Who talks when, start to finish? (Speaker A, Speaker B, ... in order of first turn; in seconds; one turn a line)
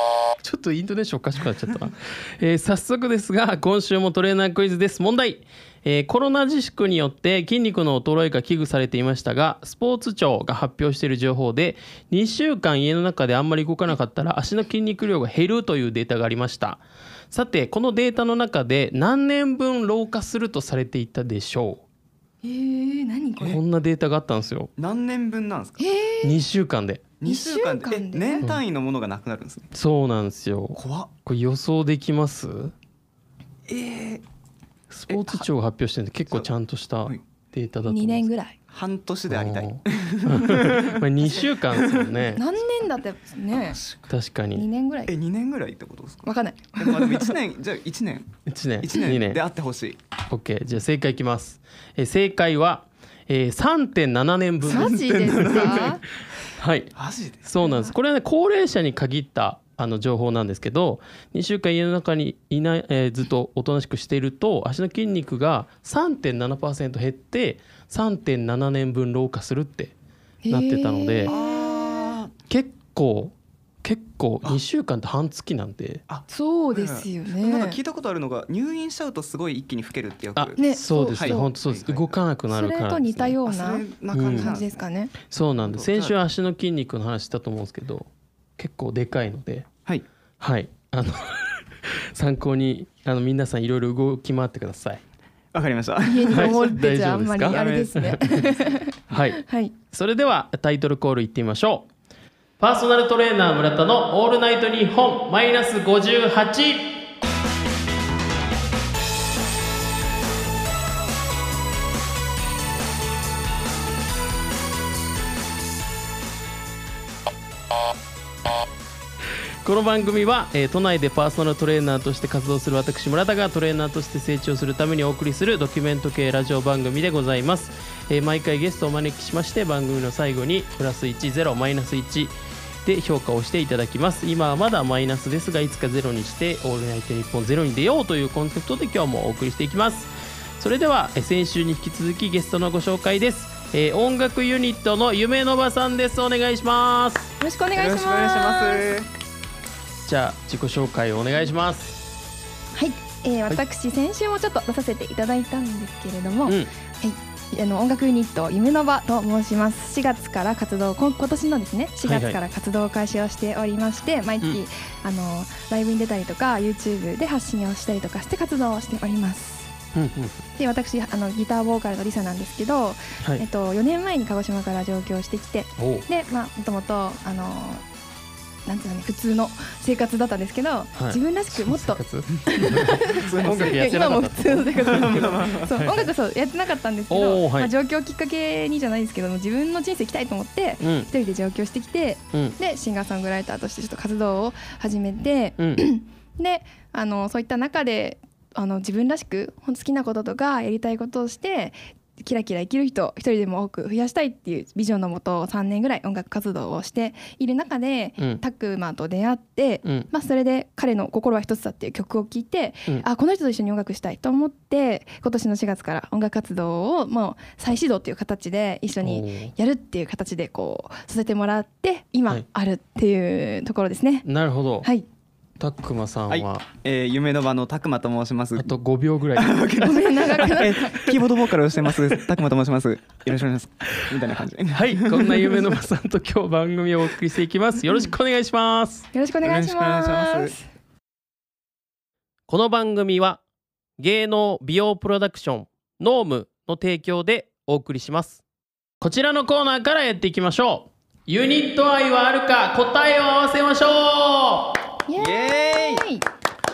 Speaker A: 0.4-21.8
Speaker B: 22.4-23.6
Speaker A: 23.4-24.7
Speaker C: 24.8-25.8
Speaker B: 25.8-26.4
Speaker A: 26.2-27.0
Speaker C: 27.2-29.7
Speaker B: 27.2-28.4
Speaker A: 29.7-32.7
Speaker C: 30.7-31.1
Speaker C: 33.7-34.2
Speaker A: 34.9-38.3
Speaker C: 35.1-35.5
Speaker B: 37.9-38.6
Speaker C: 38.7-42.1
Speaker A: 39.3-42.4
Speaker B: 42.3-43.8
Speaker C: 43.7-44.0
Speaker A: 44.1-44.6
Speaker B: 44.5-45.1
Speaker C: 45.1-50.0
Speaker B: 46.2-47.4
Speaker A: 48.5-49.4
Speaker A: 50.3-55.8
Speaker C: 54.7-56.0
Speaker B: 54.7-56.0
Speaker A: 56.5-56.9
Speaker C: 56.9-57.5
Speaker A: 57.4-69.9
Speaker B: 57.6-57.9
Speaker B: 70.4-72.2
Speaker A: 70.5-71.3
Speaker C: 71.3-72.3
Speaker A: 72.5-76.0
Speaker C: 76.1-82.2
Speaker B: 76.3-77.8
Speaker A: 80.3-83.3
Speaker B: 80.6-81.5
Speaker B: 82.5-85.1
Speaker C: 83.4-84.8
Speaker A: 84.1-84.5
Speaker A: 85.3-89.7
Speaker C: 85.7-86.2
Speaker A: 90.4-95.0
Speaker C: 95.5-96.8
Speaker B: 96.0-99.7
Speaker A: 96.3-98.5
Speaker C: 97.4-98.2
Speaker A: 99.1-101.9
Speaker A: 102.6-107.0
Speaker A: 119.6-132.3
Speaker A: 132.8-147.3
Speaker B: 147.4-148.8
Speaker C: 147.7-149.1
Speaker A: 150.1-152.0
Speaker B: 152.7-169.7
Speaker A: 162.0-162.4
Speaker A: 169.9-170.4
Speaker B: 170.6-177.8
Speaker A: 175.8-176.1
Speaker B: 178.7-224.2
Speaker A: 180.9-185.1
Speaker C: 183.0-183.8
Speaker C: 184.8-185.8
Speaker A: 185.8-186.1
Speaker A: 187.1-187.7
Speaker A: 190.8-191.1
Speaker A: 195.6-195.8
Speaker A: 219.0-219.5
Speaker A: 224.2-224.9
Speaker A: 225.6-226.6
Speaker C: 226.3-228.7
Speaker A: 228.6-229.6
Speaker C: 229.3-235.8
Speaker B: 229.8-231.1
Speaker A: 231.9-232.2
Speaker A: 234.7-239.1
Speaker B: 239.1-240.6
Speaker C: 239.4-240.5
Speaker A: 242.5-243.4
Speaker A: 244.0-248.4
Speaker A: 249.0-254.8
Speaker B: 255.1-256.2
Speaker C: 255.2-256.0